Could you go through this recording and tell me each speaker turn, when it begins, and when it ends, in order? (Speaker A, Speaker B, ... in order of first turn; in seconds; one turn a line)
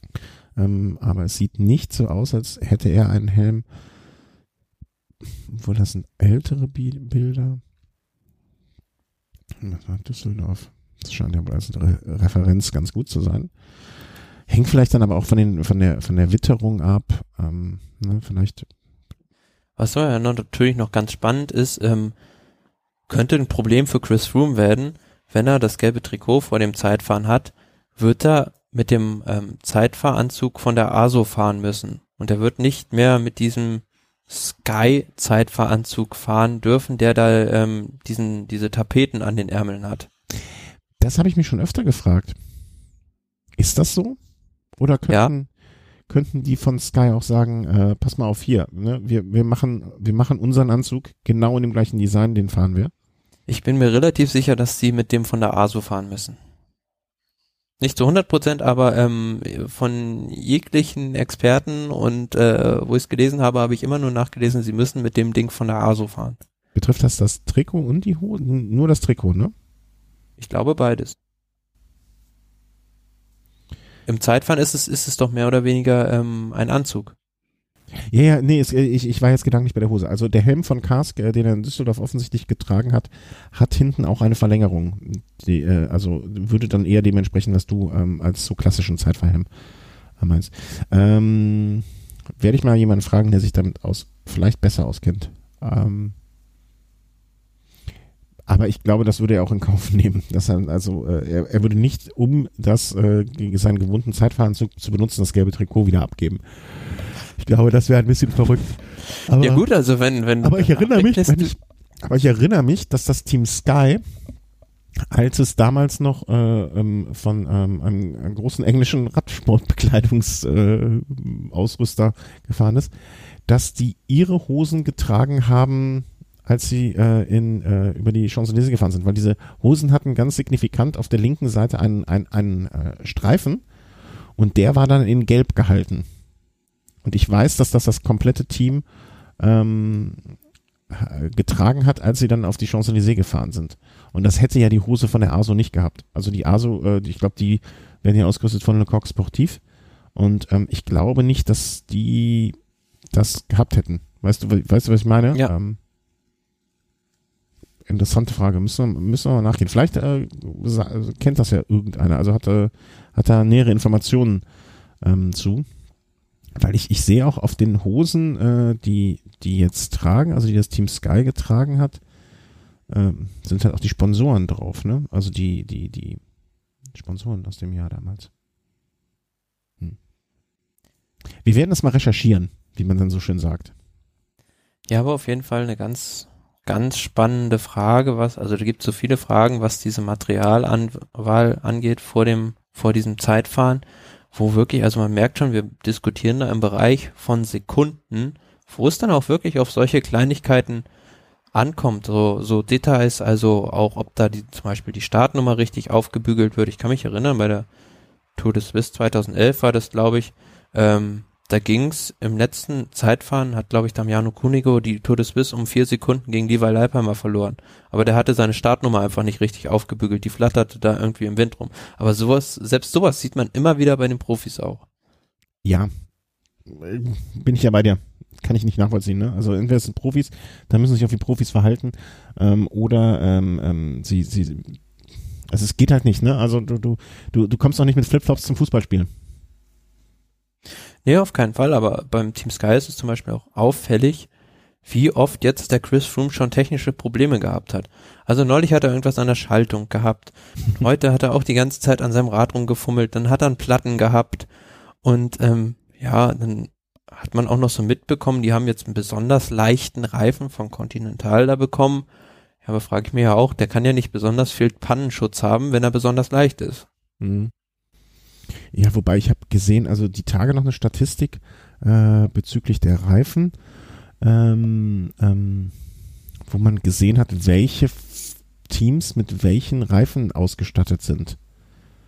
Speaker A: 0.6-3.6
Speaker A: 5.5-7.6
Speaker A: 9.6-13.5
Speaker A: 14.5-18.7
Speaker B: 19.8-22.1
Speaker B: 23.1-40.1
Speaker A: 41.0-42.4
Speaker A: 43.6-44.2
Speaker A: 44.8-45.5
Speaker A: 46.1-52.9
Speaker B: 53.5-56.4
Speaker B: 57.8-66.4
Speaker A: 66.8-69.5
Speaker B: 70.4-71.2
Speaker B: 74.1-77.1
Speaker A: 78.1-89.5
Speaker A: 90.2-91.8
Speaker A: 92.4-96.2
Speaker A: 98.5-109.6
Speaker B: 109.4-111.5
Speaker A: 110.4-114.0
Speaker A: 115.1-122.9
Speaker A: 123.5-133.6
Speaker A: 134.4-136.1
Speaker A: 137.0-138.8
Speaker A: 139.4-140.3
Speaker A: 140.9-149.6
Speaker A: 150.2-152.6
Speaker A: 153.1-155.8
Speaker A: 157.9-164.4
Speaker A: 165.0-165.7
Speaker A: 166.6-172.0
Speaker A: 172.9-176.2
Speaker A: 176.9-178.3
Speaker A: 181.4-183.7
Speaker B: 184.9-200.8
Speaker B: 201.5-207.7
Speaker B: 208.4-224.8
Speaker A: 225.6-225.9
Speaker A: 226.7-234.8
Speaker A: 235.5-239.1
Speaker B: 241.1-244.3
Speaker B: 244.8-254.5
Speaker B: 255.0-262.1
Speaker B: 262.6-266.9
Speaker A: 267.2-267.5
Speaker A: 268.7-273.6
Speaker A: 274.2-275.8
Speaker A: 276.5-281.4